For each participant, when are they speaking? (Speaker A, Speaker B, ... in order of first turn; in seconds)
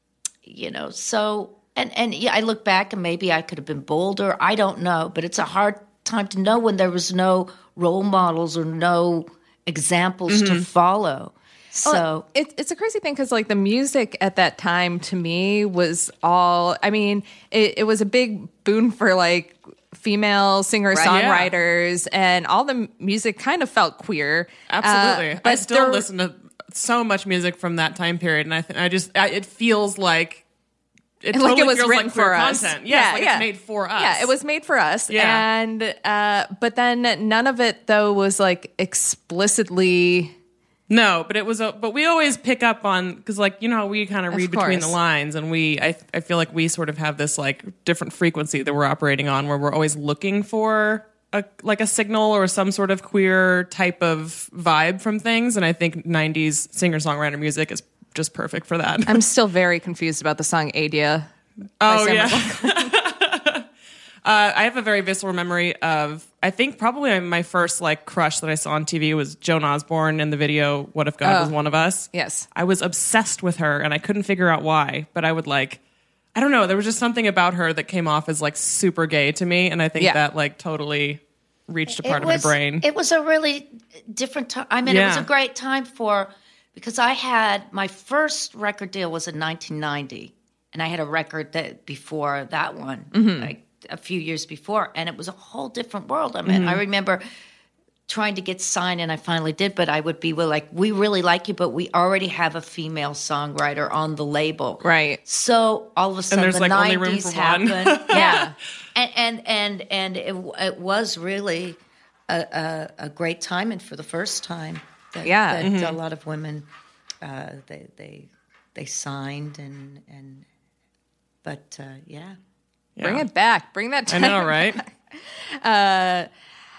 Speaker A: 0.4-12.2, 81.9-97.2, 98.1-116.7, 117.2-120.4, 121.4-122.3
Speaker B: 10.3-10.7, 21.0-21.5, 24.7-30.4, 31.2-34.3, 35.1-35.4, 40.9-59.2, 61.8-63.6, 64.2-75.8, 76.3-82.8, 84.8-85.3, 96.5-96.8, 106.3-108.4, 115.6-116.0, 123.0-123.2, 124.1-124.8
Speaker C: 11.8-26.1, 31.3-40.3, 44.3-45.0, 59.0-61.3, 61.8-62.9, 71.2-71.5, 72.1-72.5, 93.1-93.5, 104.8-105.2, 108.1-108.5, 115.2-115.7, 123.0-126.3